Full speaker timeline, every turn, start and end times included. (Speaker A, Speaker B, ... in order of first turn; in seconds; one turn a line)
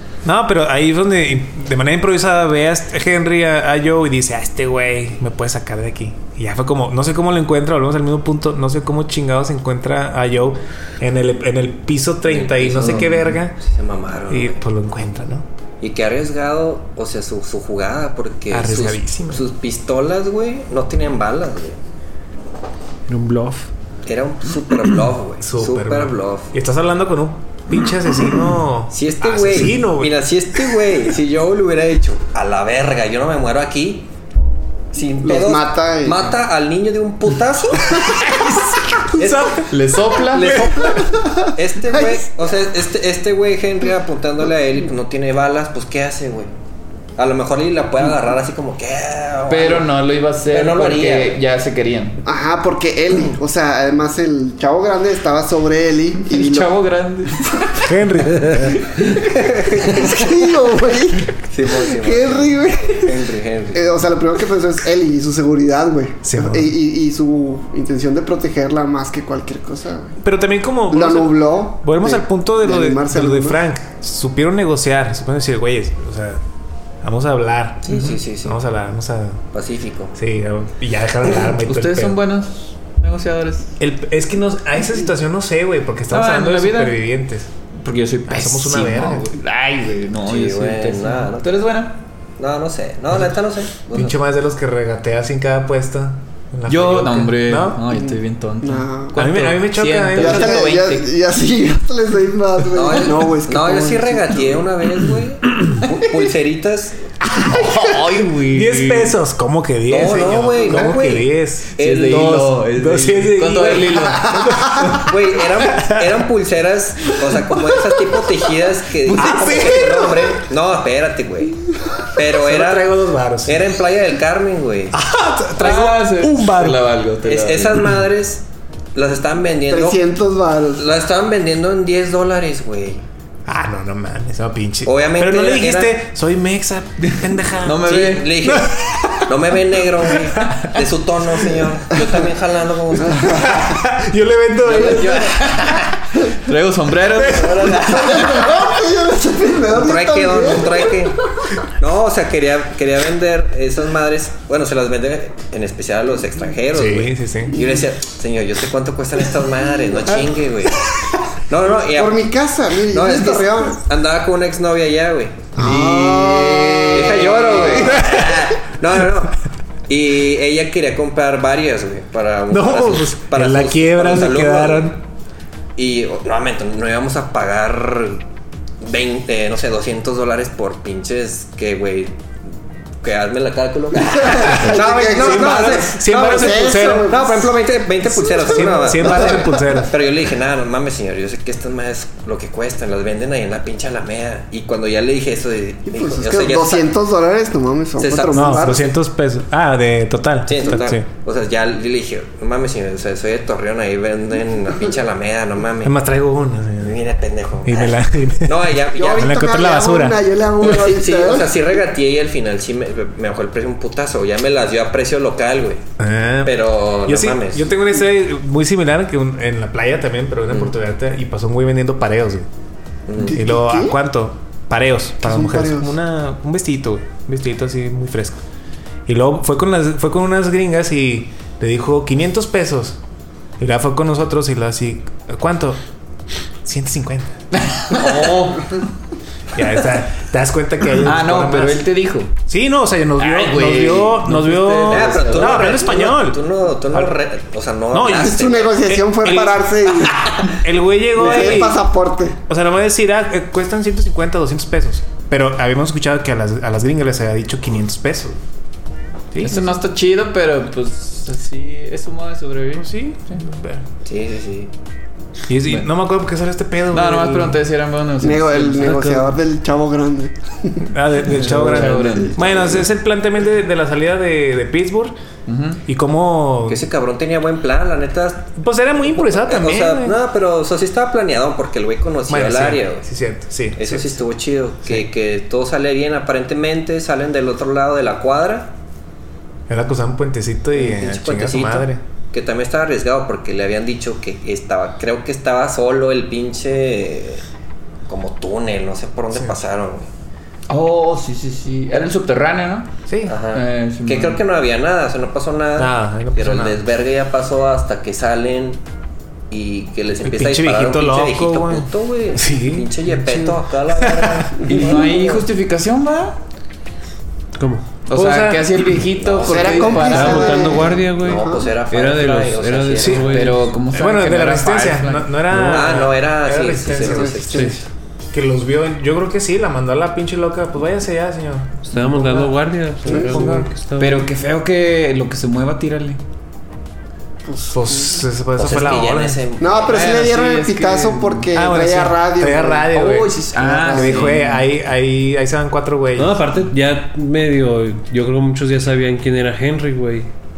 Speaker A: 0.2-13.6
Speaker B: 12.3-14.6
Speaker A: 14.3-15.5
Speaker B: 15.8-21.8
Speaker A: 18.5-19.5
Speaker C: 23.1-23.6
Speaker B: 24.1-26.5
Speaker A: 25.4-30.2
Speaker B: 28.9-34.1
Speaker B: 34.9-38.4
Speaker D: 35.2-36.4
Speaker D: 37.9-38.3
Speaker B: 39.1-39.6
Speaker A: 39.2-39.7
Speaker E: 39.6-40.5
Speaker B: 40.2-41.0
Speaker A: 40.4-41.0
Speaker D: 40.5-42.2
Speaker B: 41.5-46.5
Speaker B: 47.2-49.9
Speaker E: 49.5-52.2
Speaker B: 50.5-51.4
Speaker D: 52.2-56.8
Speaker E: 56.3-57.9
Speaker D: 57.7-63.2
Speaker A: 57.8-58.8
Speaker B: 59.2-60.4
Speaker B: 61.5-63.8
Speaker D: 63.7-70.2
Speaker A: 66.2-66.7
Speaker A: 70.2-76.4
Speaker D: 70.9-73.6
Speaker A: 77.0-79.4
Speaker B: 77.8-78.6
Speaker B: 79.5-80.1
Speaker A: 80.2-82.2
Speaker E: 81.6-83.7
Speaker A: 83.8-87.5
Speaker E: 86.1-87.0
Speaker E: 87.8-92.0
Speaker A: 88.3-89.3
Speaker B: 90.2-91.6
Speaker B: 92.4-94.2
Speaker A: 94.0-97.8
Speaker E: 96.7-101.1
Speaker D: 97.9-99.2
Speaker A: 99.2-100.8
Speaker D: 100.2-104.7
Speaker B: 102.7-107.2
Speaker E: 107.2-109.2
Speaker A: 107.4-116.1
Speaker B: 109.9-112.5
Speaker E: 111.8-114.9
Speaker B: 114.9-121.6
Speaker A: 119.1-120.3
Speaker B: 122.1-122.9
Speaker A: 122.3-123.8
Speaker B: 123.4-125.0
Speaker A: 124.9-126.8
Speaker E: 125.6-127.8
Speaker B: 127.2-130.0
Speaker D: 129.7-130.9
Speaker B: 130.8-133.1
Speaker A: 133.5-140.8
Speaker B: 134.8-136.0
Speaker E: 137.0-138.4
Speaker B: 137.8-143.8
Speaker A: 143.1-146.0
Speaker B: 144.6-145.6
Speaker E: 145.4-148.4
Speaker A: 147.1-148.6
Speaker B: 147.2-148.3
Speaker D: 147.8-151.6
Speaker B: 149.7-151.2
Speaker B: 151.8-160.9
Speaker A: 156.7-157.6
Speaker B: 161.5-162.2
Speaker D: 161.9-163.8
Speaker B: 162.9-165.5
Speaker D: 165.6-168.0
Speaker E: 165.6-168.1
Speaker B: 166.9-169.4
Speaker A: 167.8-168.4
Speaker B: 169.9-174.9
Speaker A: 172.5-175.0
Speaker B: 175.8-178.2
Speaker B: 178.8-182.2
Speaker B: 183.0-196.9
Speaker D: 183.9-187.5
Speaker A: 184.2-187.3
Speaker A: 188.1-190.0
Speaker D: 195.9-198.8
Speaker B: 198.0-198.6
Speaker A: 198.3-201.1
Speaker B: 200.5-205.9
Speaker A: 205.8-207.0
Speaker B: 206.8-209.3
Speaker A: 207.6-210.7
Speaker D: 208.9-211.6
Speaker B: 210.6-215.8
Speaker A: 216.0-222.5
Speaker B: 216.4-217.7
Speaker B: 223.1-223.4
Speaker D: 223.2-224.0
Speaker A: 223.3-228.4
Speaker D: 225.2-225.9
Speaker A: 229.1-233.0
Speaker A: 233.6-235.8
Speaker A: 236.7-237.3
Speaker E: 237.5-238.9
Speaker B: 237.9-238.5
Speaker A: 239.6-241.8
Speaker E: 241.0-242.3
Speaker A: 242.5-247.2
Speaker E: 243.2-245.7
Speaker B: 244.9-248.9
Speaker A: 247.9-251.8
Speaker D: 248.1-250.3
Speaker D: 251.2-252.4
Speaker A: 252.5-258.4
Speaker A: 259.3-259.8
Speaker E: 259.4-263.4
Speaker A: 262.8-263.8
Speaker B: 264.1-264.7
Speaker A: 265.5-267.6
Speaker E: 266.9-269.2
Speaker D: 268.2-270.9
Speaker C: 268.8-269.3
Speaker A: 270.9-275.2
Speaker E: 271.2-272.5
Speaker D: 271.5-272.9
Speaker E: 275.5-275.8
Speaker A: 275.9-276.8
Speaker B: 276.7-283.1
Speaker A: 278.6-280.2
Speaker A: 282.3-284.1
Speaker B: 283.8-288.7
Speaker A: 289.7-292.0
Speaker B: 290.7-297.4
Speaker B: 298.1-300.1
Speaker E: 300.7-302.9
Speaker A: 303.1-303.3
Speaker B: 303.3-308.8
Speaker E: 303.5-304.4
Speaker A: 305.8-306.8
Speaker B: 309.5-315.5
Speaker A: 310.2-314.5
Speaker E: 314.6-316.4
Speaker C: 317.5-317.9
Speaker E: 318.1-320.8
Speaker A: 318.1-318.9
Speaker B: 319.1-320.2
Speaker D: 319.4-321.8
Speaker C: 319.9-323.7
Speaker B: 321.2-323.3
Speaker A: 323.0-327.6
Speaker E: 323.2-325.3
Speaker B: 325.5-327.9
Speaker D: 326.9-327.8
Speaker C: 327.5-327.8
Speaker A: 328.3-333.7
Speaker C: 331.9-334.3
Speaker D: 333.1-333.5
Speaker E: 334.0-336.2
Speaker D: 337.4-338.2
Speaker A: 337.7-339.4
Speaker B: 338.6-340.1
Speaker D: 339.6-342.9
Speaker E: 339.9-341.5
Speaker A: 341.6-346.4
Speaker E: 342.9-344.7
Speaker D: 343.6-344.5
Speaker C: 346.2-350.3